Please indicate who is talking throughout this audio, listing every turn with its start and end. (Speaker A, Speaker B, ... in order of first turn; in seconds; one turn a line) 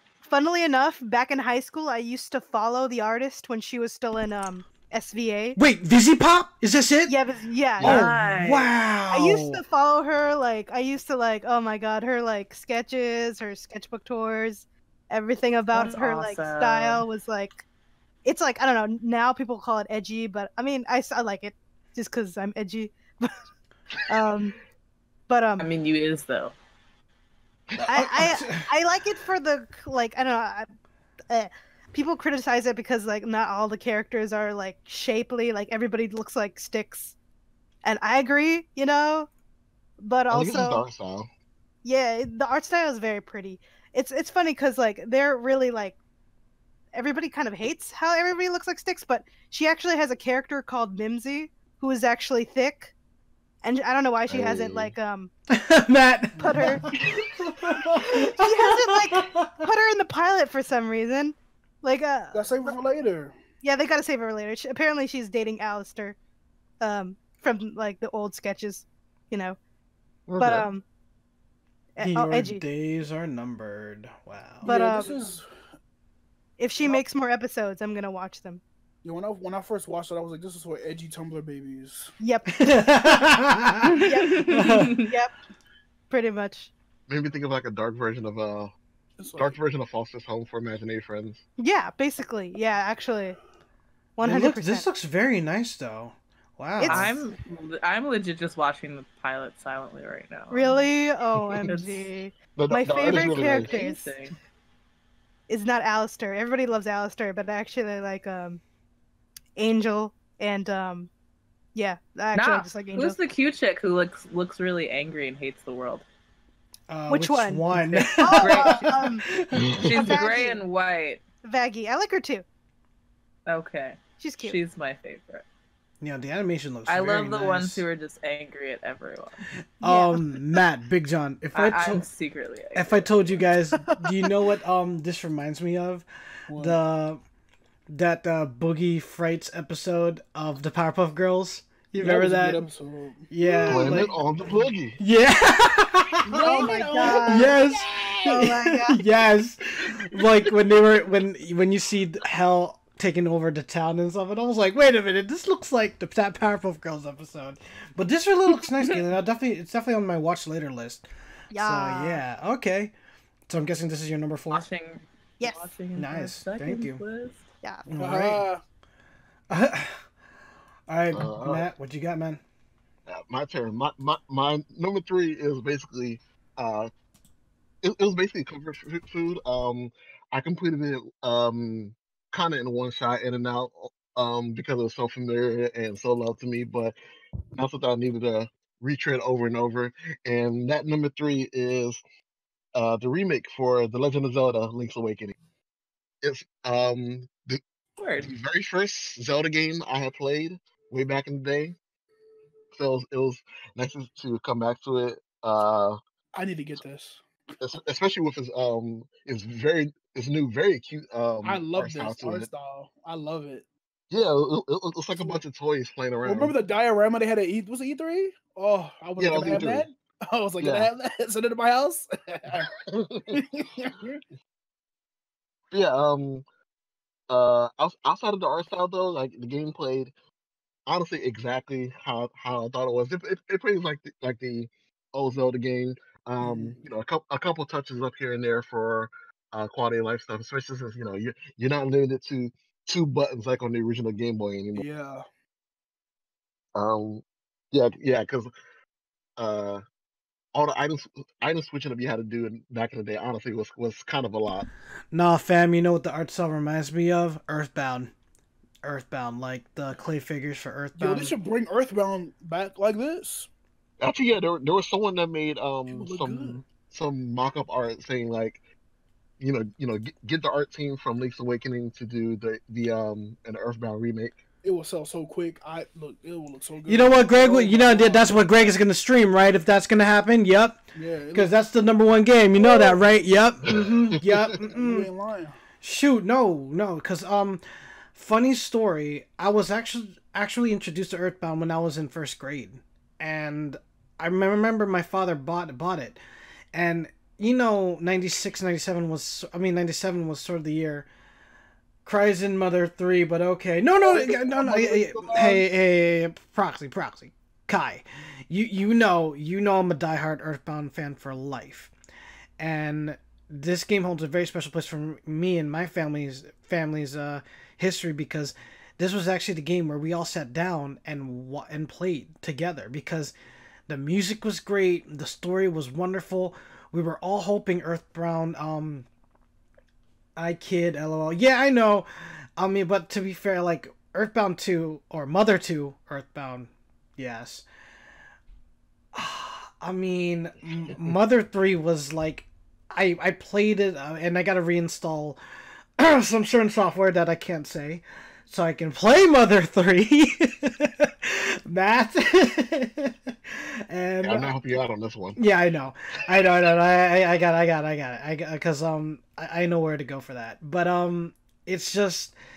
Speaker A: 0.3-5.6
Speaker B: 5.5-7.1
Speaker A: 7.1-8.0
Speaker C: 7.8-8.7
Speaker B: 7.8-9.6
Speaker A: 9.1-17.6
Speaker C: 15.7-17.1
Speaker A: 18.2-23.4
Speaker A: 24.0-24.6
Speaker A: 25.3-25.6
Speaker C: 25.6-26.5
Speaker D: 27.8-28.6
Speaker A: 27.9-30.7
Speaker B: 28.2-28.6
Speaker A: 31.3-37.1
Speaker A: 37.8-39.3
Speaker A: 40.0-40.8
Speaker E: 40.3-41.3
Speaker A: 41.8-46.0
Speaker A: 46.9-52.9
Speaker A: 53.6-55.3
Speaker E: 54.3-54.9
Speaker B: 55.5-59.6
Speaker D: 56.4-56.8
Speaker A: 56.4-56.8
Speaker A: 58.1-62.7
Speaker D: 62.3-63.4
Speaker A: 63.6-66.2
Speaker A: 66.8-69.6
Speaker E: 70.3-70.7
Speaker A: 70.4-70.8
Speaker A: 72.0-72.6
Speaker B: 72.0-74.8
Speaker D: 74.6-75.5
Speaker A: 74.7-75.2
Speaker A: 76.6-78.6
Speaker D: 79.0-82.1
Speaker A: 82.2-83.2
Speaker B: 82.5-84.9
Speaker C: 83.9-85.1
Speaker A: 84.0-85.3
Speaker A: 86.1-86.7
Speaker E: 87.1-88.7
Speaker D: 89.2-89.6
Speaker E: 89.4-91.4
Speaker A: 91.6-93.4
Speaker A: 94.2-94.8
Speaker B: 94.2-97.1
Speaker A: 96.8-97.2
Speaker C: 96.9-100.8
Speaker A: 100.5-104.1
Speaker C: 101.7-102.1
Speaker E: 102.5-103.8
Speaker C: 102.9-104.3
Speaker A: 105.5-108.6
Speaker A: 109.5-111.1
Speaker A: 111.7-113.2
Speaker C: 112.3-116.0
Speaker B: 116.9-119.6
Speaker A: 117.1-117.6
Speaker C: 117.9-119.1
Speaker A: 118.2-119.2
Speaker E: 119.5-120.1
Speaker C: 119.7-121.2
Speaker A: 119.8-120.6
Speaker A: 121.4-122.4
Speaker C: 123.5-125.4
Speaker A: 124.2-124.6
Speaker B: 126.0-127.8
Speaker C: 126.9-129.5
Speaker B: 129.8-132.0
Speaker A: 129.8-130.2
Speaker C: 131.5-133.4
Speaker B: 132.7-137.2
Speaker D: 136.5-136.8
Speaker B: 137.9-142.7
Speaker D: 142.0-144.6
Speaker B: 143.3-144.1
Speaker E: 143.7-145.0
Speaker B: 145.0-162.9
Speaker D: 146.2-148.5
Speaker A: 146.3-147.6
Speaker A: 148.2-149.0
Speaker A: 161.5-162.2
Speaker B: 163.5-164.7
Speaker C: 164.5-167.4
Speaker A: 165.4-165.7
Speaker B: 165.9-167.0
Speaker A: 167.6-167.9
Speaker B: 167.9-168.5
Speaker D: 168.0-168.6
Speaker B: 169.5-170.0
Speaker B: 170.9-172.4
Speaker E: 171.1-171.6
Speaker E: 173.1-176.9
Speaker E: 177.8-186.9
Speaker E: 187.6-192.0
Speaker E: 192.7-195.3
Speaker E: 196.2-197.6
Speaker C: 198.0-198.3
Speaker E: 198.2-201.8
Speaker E: 202.7-206.0
Speaker D: 206.3-207.2
Speaker E: 207.6-212.5
Speaker D: 211.4-213.7
Speaker E: 214.1-216.5
Speaker D: 216.2-222.7
Speaker E: 219.2-219.8
Speaker E: 220.6-220.9
Speaker E: 222.8-223.4
Speaker D: 223.3-224.2
Speaker E: 225.7-226.4
Speaker E: 227.3-230.1
Speaker E: 230.9-244.8
Speaker D: 236.4-236.8
Speaker D: 244.7-245.2
Speaker E: 246.7-248.5
Speaker E: 249.4-249.8
Speaker E: 250.5-254.7
Speaker B: 255.1-258.1
Speaker B: 258.8-261.3
Speaker D: 261.0-263.5
Speaker E: 264.0-268.6
Speaker D: 265.9-266.6
Speaker E: 269.4-274.4
Speaker D: 274.6-278.7
Speaker B: 276.9-280.8
Speaker D: 280.9-281.5
Speaker B: 281.3-285.1
Speaker D: 282.6-283.0
Speaker E: 283.7-284.4
Speaker D: 284.6-285.6
Speaker B: 285.8-287.6
Speaker B: 288.1-296.2
Speaker B: 296.7-301.1
Speaker B: 302.0-311.9
Speaker D: 304.0-305.6
Speaker B: 312.6-323.3
Speaker B: 323.9-329.1
Speaker B: 330.4-337.6
Speaker B: 339.1-345.4
Speaker B: 346.0-354.5
Speaker E: 354.2-355.4
Speaker B: 355.4-362.3